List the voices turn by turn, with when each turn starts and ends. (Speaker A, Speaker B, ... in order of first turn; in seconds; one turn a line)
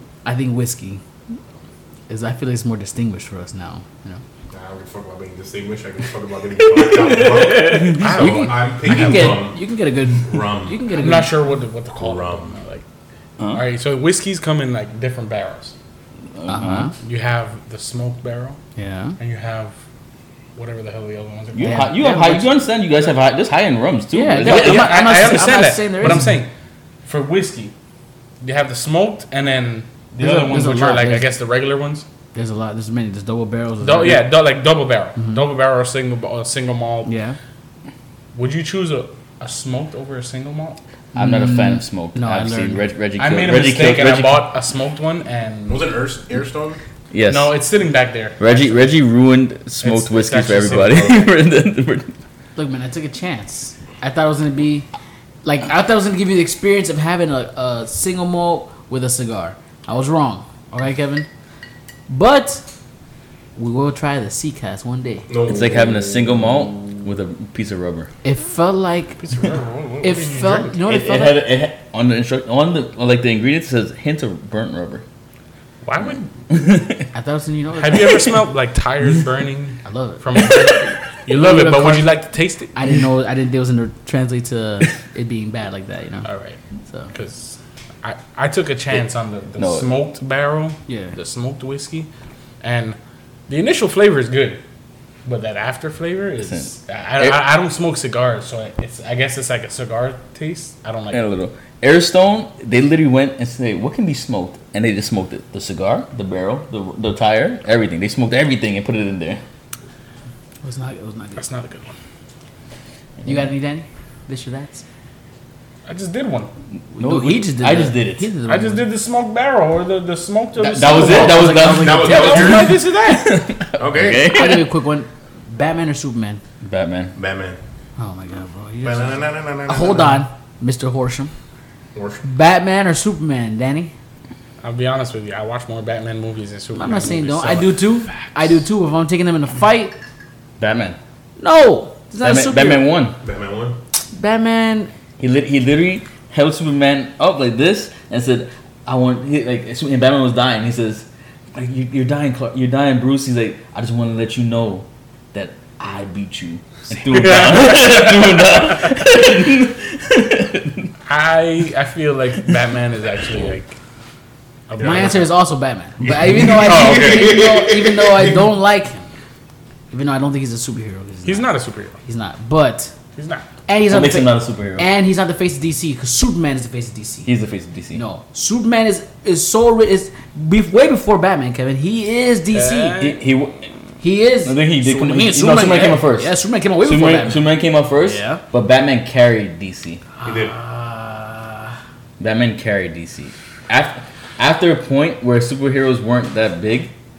Speaker A: 0.2-1.0
Speaker A: 2.1-4.2
Speaker B: 4.5-9.6
Speaker A: 7.2-11.3
Speaker C: 7.2-9.4
Speaker B: 10.2-10.8
Speaker C: 10.9-12.8
Speaker B: 12.0-12.5
Speaker C: 13.5-15.7
Speaker D: 16.4-16.9
Speaker A: 16.5-16.9
Speaker C: 17.0-18.6
Speaker A: 18.8-19.2
Speaker C: 19.2-19.7
Speaker C: 20.6-21.9
Speaker D: 21.6-25.1
Speaker A: 21.6-22.5
Speaker A: 24.1-26.3
Speaker C: 24.4-26.5
Speaker C: 27.1-27.7
Speaker C: 28.4-32.1
Speaker A: 30.2-31.3
Speaker D: 30.2-30.5
Speaker A: 32.3-34.3
Speaker C: 33.8-37.1
Speaker A: 35.2-35.4
Speaker A: 37.0-37.4
Speaker C: 38.3-40.8
Speaker A: 41.1-42.8
Speaker D: 41.1-44.5
Speaker C: 43.2-45.9
Speaker B: 45.7-46.8
Speaker D: 47.1-47.5
Speaker C: 47.3-48.9
Speaker D: 48.4-52.1
Speaker C: 49.8-51.1
Speaker B: 50.6-51.3
Speaker A: 52.6-54.9
Speaker A: 55.4-61.3
Speaker A: 62.1-62.7
Speaker A: 63.6-65.3
Speaker B: 65.3-66.1
Speaker D: 65.5-68.1
Speaker A: 68.2-69.2
Speaker C: 69.2-70.8
Speaker A: 70.0-71.4
Speaker D: 70.9-75.0
Speaker C: 75.8-76.3
Speaker D: 76.5-77.0
Speaker A: 77.1-78.1
Speaker C: 77.8-82.7
Speaker A: 79.8-80.5
Speaker A: 81.3-82.2
Speaker A: 82.7-86.3
Speaker C: 86.2-86.6
Speaker C: 87.1-92.1
Speaker D: 89.6-89.9
Speaker A: 90.9-91.2
Speaker C: 92.6-93.0
Speaker C: 93.5-94.6
Speaker C: 95.3-101.2
Speaker D: 96.4-96.7
Speaker D: 101.1-109.4
Speaker A: 110.6-111.5
Speaker C: 111.4-111.9
Speaker A: 113.2-114.8
Speaker C: 115.9-116.5
Speaker A: 116.9-118.8
Speaker D: 117.0-118.3
Speaker C: 118.5-123.5
Speaker D: 120.6-124.7
Speaker A: 120.7-122.7
Speaker B: 121.4-122.8
Speaker B: 123.8-124.3
Speaker A: 124.3-126.4
Speaker D: 126.6-127.1
Speaker B: 127.2-127.6
Speaker A: 128.0-131.3
Speaker B: 128.8-130.2
Speaker B: 131.9-132.2
Speaker A: 132.2-133.9
Speaker C: 134.6-138.2
Speaker A: 136.8-140.0
Speaker D: 140.6-141.0
Speaker A: 141.4-142.9
Speaker D: 142.2-143.2
Speaker B: 143.2-143.8
Speaker A: 144.1-144.9
Speaker D: 145.2-160.9
Speaker C: 157.1-158.6
Speaker C: 161.1-163.7
Speaker C: 164.7-165.3
Speaker B: 164.8-165.2
Speaker A: 164.8-169.1
Speaker B: 166.1-168.4
Speaker C: 166.4-167.3
Speaker A: 169.9-171.5
Speaker C: 171.2-172.0
Speaker A: 172.0-172.9
Speaker C: 173.2-173.4
Speaker A: 173.7-177.3
Speaker D: 173.9-174.9
Speaker D: 177.3-178.0
Speaker A: 177.9-183.1
Speaker C: 182.5-183.2
Speaker D: 183.0-183.7
Speaker A: 184.0-187.5
Speaker D: 184.4-190.0
Speaker A: 188.0-188.4
Speaker A: 190.2-191.8
Speaker B: 190.2-190.6
Speaker D: 192.2-196.9